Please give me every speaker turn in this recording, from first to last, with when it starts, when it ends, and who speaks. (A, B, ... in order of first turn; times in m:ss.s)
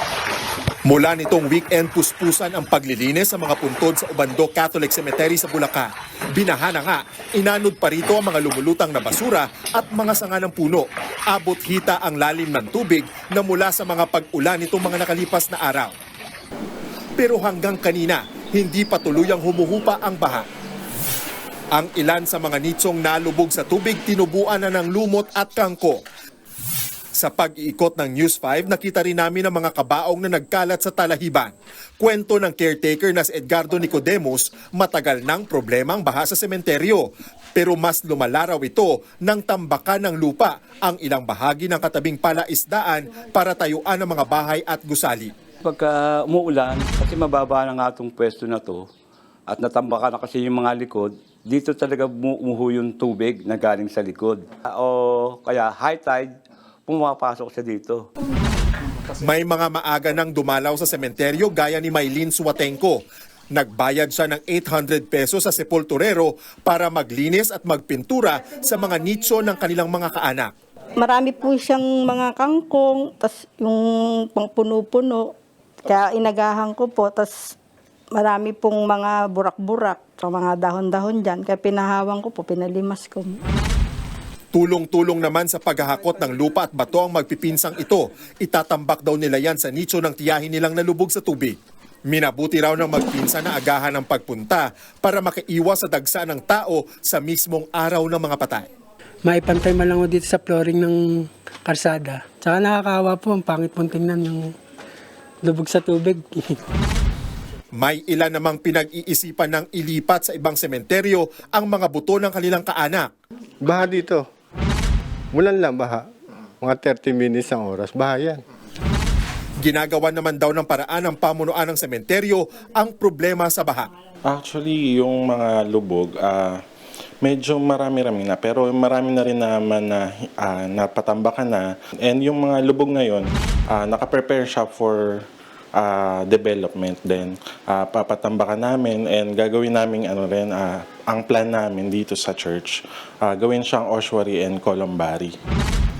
0:00.8-0:15.9 A
0:17.2-0:20.5 A
0:21.8-0:26.0 A
0:27.2-0:45.4 A
0:45.6-0:48.9 B
0:49.5-0:58.1 B
0:59.2-1:03.0 A
1:03.5-1:10.5 A
1:11.0-1:15.3 C
1:15.8-1:17.5 C
1:18.1-1:23.4 C
1:24.5-1:31.6 A
1:32.1-1:38.7 A
1:39.2-1:44.5 D
1:45.4-1:46.6 D
1:47.8-1:53.1 A
1:53.6-1:54.2 E
1:55.3-1:56.0 E
1:56.6-1:58.4 E
1:59.6-2:03.9 A
2:04.3-2:06.5 F
2:07.2-2:15.2 F
2:15.8-2:25.3 F